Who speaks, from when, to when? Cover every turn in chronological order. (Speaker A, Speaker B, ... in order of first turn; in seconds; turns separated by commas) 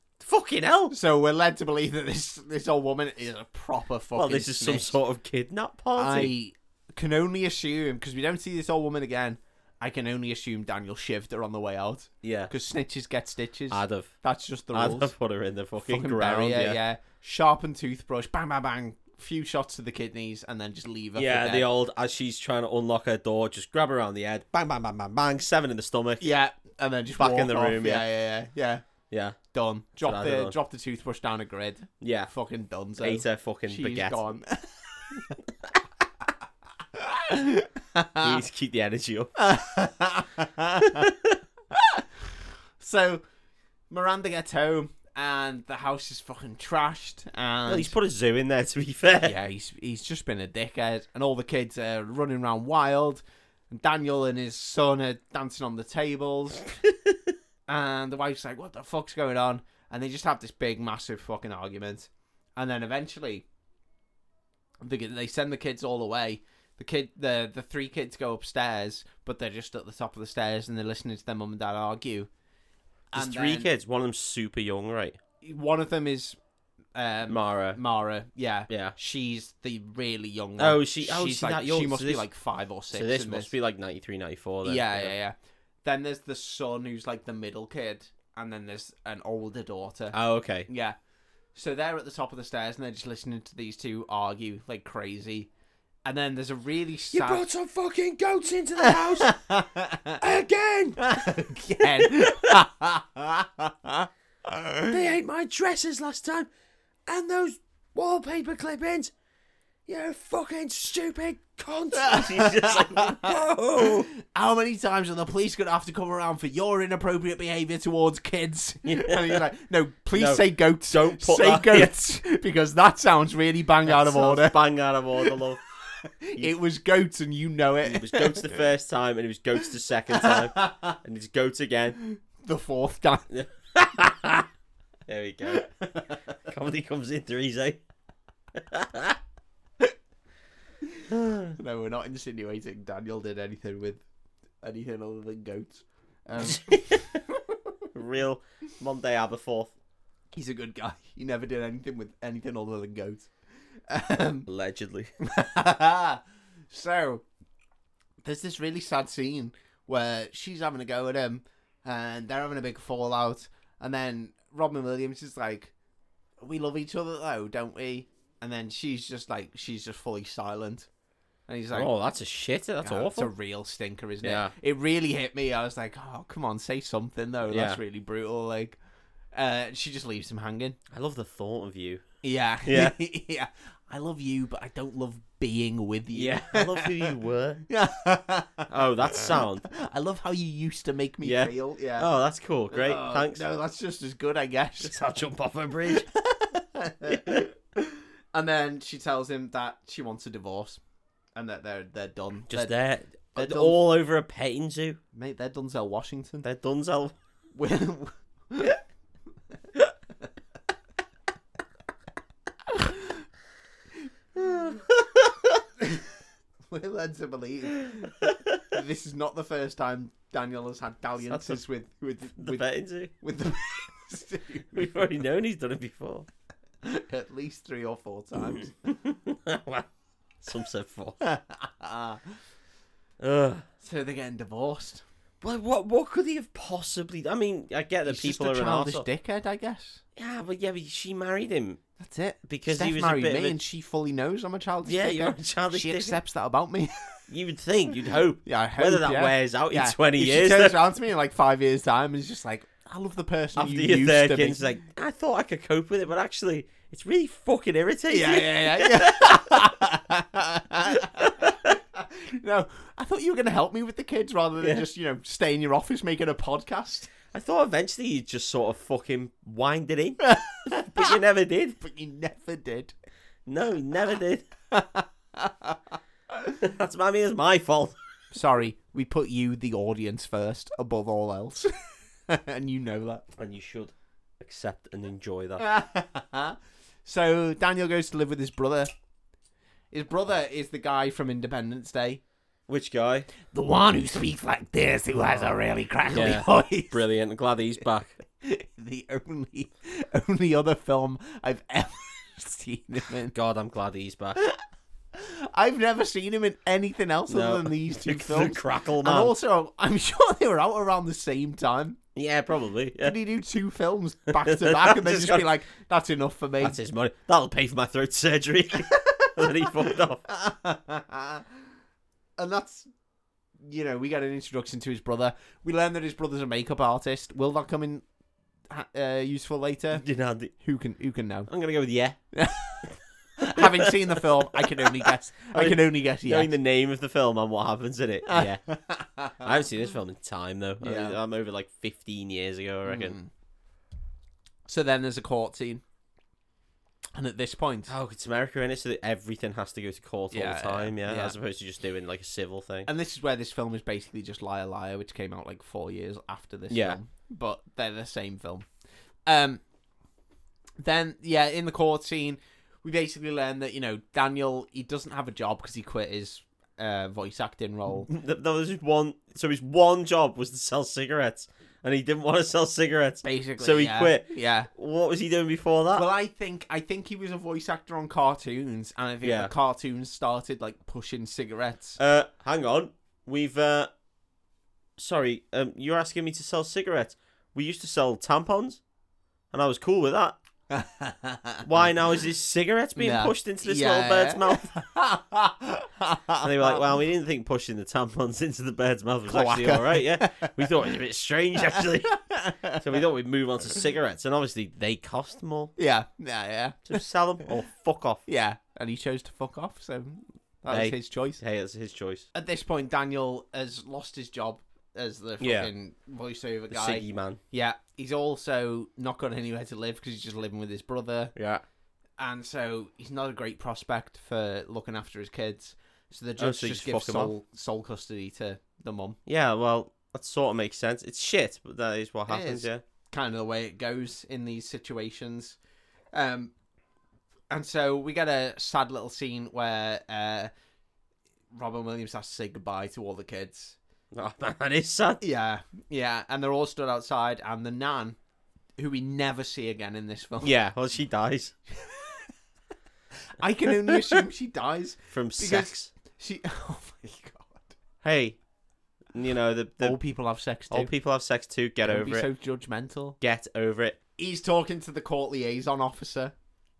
Speaker A: 0.2-0.9, Speaker B: 0.9-5.0, Speaker A: 4.1-6.3, Speaker B: 6.0-15.1, Speaker A: 12.2-12.5, Speaker A: 13.7-14.1, Speaker A: 14.7-16.8, Speaker B: 15.8-21.6, Speaker A: 21.1-26.3, Speaker B: 26.2-28.9, Speaker A: 27.2-28.0, Speaker A: 29.1-29.4, Speaker B: 29.5-35.4, Speaker A: 30.0-30.5, Speaker A: 32.0-32.3, Speaker A: 33.0-34.2, Speaker B: 36.9-38.4, Speaker A: 38.2-39.3, Speaker B: 39.4-41.1, Speaker A: 40.9-41.4, Speaker B: 41.7-43.2, Speaker B: 43.9-47.9, Speaker A: 47.6-49.3, Speaker B: 49.2-56.8, Speaker B: 57.7-63.5, Speaker B: 64.8-72.3, Speaker B: 73.1-73.7, Speaker A: 73.1-75.2, Speaker B: 75.4-76.4, Speaker B: 76.9-83.5, Speaker A: 77.3-77.8, Speaker A: 78.7-79.0, Speaker A: 80.6-82.3, Speaker A: 82.9-85.1, Speaker B: 84.6-91.0, Speaker A: 90.1-90.7, Speaker B: 91.5-95.5, Speaker B: 96.0-97.5, Speaker A: 97.1-99.3, Speaker B: 98.8-100.2, Speaker A: 100.2-102.6, Speaker B: 101.0-105.0, Speaker A: 104.9-106.5, Speaker A: 107.0-109.1, Speaker A: 109.8-114.1, Speaker B: 112.0-124.6, Speaker A: 118.8-119.4, Speaker A: 120.1-121.9, Speaker A: 123.8-125.6, Speaker B: 126.0-128.6, Speaker A: 127.8-132.0, Speaker B: 130.1-130.9, Speaker B: 132.0-133.3, Speaker A: 133.3-134.5, Speaker A: 135.1-135.7, Speaker B: 135.5-136.2, Speaker A: 136.4-137.8, Speaker A: 138.5-139.2, Speaker B: 140.9-144.0, Speaker A: 141.1-141.6, Speaker B: 144.6-147.2, Speaker A: 146.4-147.2, Speaker A: 147.9-149.7, Speaker B: 150.3-153.3, Speaker B: 153.9-154.5, Speaker A: 154.5-155.1, Speaker B: 155.2-157.2, Speaker B: 158.2-165.7, Speaker B: 166.4-170.9, Speaker B: 171.5-171.9, Speaker A: 171.7-173.3, Speaker B: 172.8-178.8, Speaker A: 174.2-174.5, Speaker A: 177.4-177.8, Speaker B: 179.3-180.8, Speaker A: 180.9-182.0, Speaker B: 182.2-187.1, Speaker A: 182.6-182.9, Speaker A: 186.1-187.6, Speaker B: 187.7-192.1, Speaker A: 188.7-189.7, Speaker A: 191.2-193.4, Speaker B: 192.7-194.9, Speaker A: 194.8-196.1, Speaker B: 196.1-200.8, Speaker A: 197.0-197.5, Speaker B: 201.3-202.7, Speaker A: 202.5-205.0, Speaker B: 203.3-203.8, Speaker B: 205.1-206.5, Speaker A: 206.4-207.1, Speaker B: 207.6-208.8, Speaker B: 212.7-213.2, Speaker A: 214.3-215.6, Speaker B: 215.8-216.1, Speaker B: 216.7-224.9, Speaker A: 218.0-218.6, Speaker A: 221.3-221.6, Speaker A: 222.4-223.1, Speaker A: 224.7-226.3, Speaker B: 226.8-228.9, Speaker A: 228.4-229.9, Speaker A: 230.4-231.2, Speaker B: 231.2-232.3, Speaker A: 233.2-233.6, Speaker B: 233.8-235.0, Speaker A: 235.4-239.1, Speaker B: 238.0-240.0, Speaker A: 240.2-241.8, Speaker B: 242.0-247.2, Speaker A: 242.5-243.6, Speaker A: 244.8-246.2, Speaker A: 247.3-250.8, Speaker B: 248.4-254.6, Speaker A: 253.6-259.7, Speaker B: 258.1-267.1, Speaker A: 260.9-261.8, Speaker A: 264.6-264.8, Speaker A: 267.3-270.2, Speaker B: 270.2-271.2, Speaker A: 270.7-271.8, Speaker B: 271.8-272.9, Speaker A: 273.4-274.5, Speaker B: 274.7-275.8, Speaker A: 276.6-277.9, Speaker B: 278.3-281.7, Speaker B: 282.3-283.2, Speaker A: 283.3-285.6, Speaker B: 285.6-288.9, Speaker B: 289.9-292.2, Speaker A: 292.7-293.3, Speaker B: 293.5-297.0, Speaker A: 296.1-298.1, Speaker B: 298.4-303.3, Speaker A: 303.3-304.4, Speaker B: 305.1-312.0, Speaker A: 307.3-309.3, Speaker A: 312.1-313.1, Speaker B: 313.0-316.8, Speaker A: 314.3-315.5, Speaker A: 316.6-320.2, Speaker B: 320.3-321.4, Speaker B: 322.4-322.9, Speaker B: 323.6-328.0, Speaker B: 328.7-330.0, Speaker A: 329.9-330.5, Speaker B: 330.6-331.5, Speaker A: 331.5-332.2, Speaker B: 332.3-336.5, Speaker A: 333.5-338.6, Speaker B: 338.2-339.6, Speaker A: 339.4-343.1, Speaker B: 340.8-341.2, Speaker B: 342.8-343.3, Speaker B: 344.7-345.8, Speaker B: 347.1-347.9, Speaker A: 347.9-352.9, Speaker B: 350.3-351.4, Speaker B: 352.9-358.7, Speaker A: 356.7-357.0, Speaker B: 359.3-359.6, Speaker B: 360.8-368.1, Speaker A: 368.1-376.0, Speaker B: 373.2-374.7, Speaker B: 375.9-382.0, Speaker A: 379.2-379.5, Speaker A: 382.0-383.9, Speaker A: 385.0-388.8, Speaker A: 389.5-390.4, Speaker B: 390.7-391.6, Speaker A: 391.6-394.7, Speaker B: 392.9-396.8, Speaker A: 396.4-405.7, Speaker B: 399.3-400.7, Speaker B: 401.6-402.8, Speaker B: 405.8-407.0, Speaker A: 406.9-408.2, Speaker B: 408.2-411.4, Speaker A: 410.7-412.2, Speaker B: 412.3-421.3, Speaker A: 415.4-415.7, Speaker A: 416.7-417.4, Speaker A: 421.4-421.6, Speaker B: 422.2-429.2, Speaker A: 426.4-427.3, Speaker A: 429.3-432.8, Speaker B: 432.3-435.6, Speaker B: 436.1-436.5, Speaker B: 437.5-440.5, Speaker B: 441.5-443.8, Speaker A: 444.1-445.2, Speaker B: 445.2-448.2, Speaker B: 448.8-450.5, Speaker A: 450.4-451.5, Speaker B: 451.8-452.2, Speaker B: 453.4-457.7, Speaker A: 453.8-454.2, Speaker A: 455.1-455.9, Speaker A: 458.0-458.4, Speaker A: 459.1-460.0, Speaker B: 459.8-460.9, Speaker A: 460.7-462.3, Speaker B: 461.8-463.2, Speaker A: 463.2-464.0, Speaker B: 464.2-466.3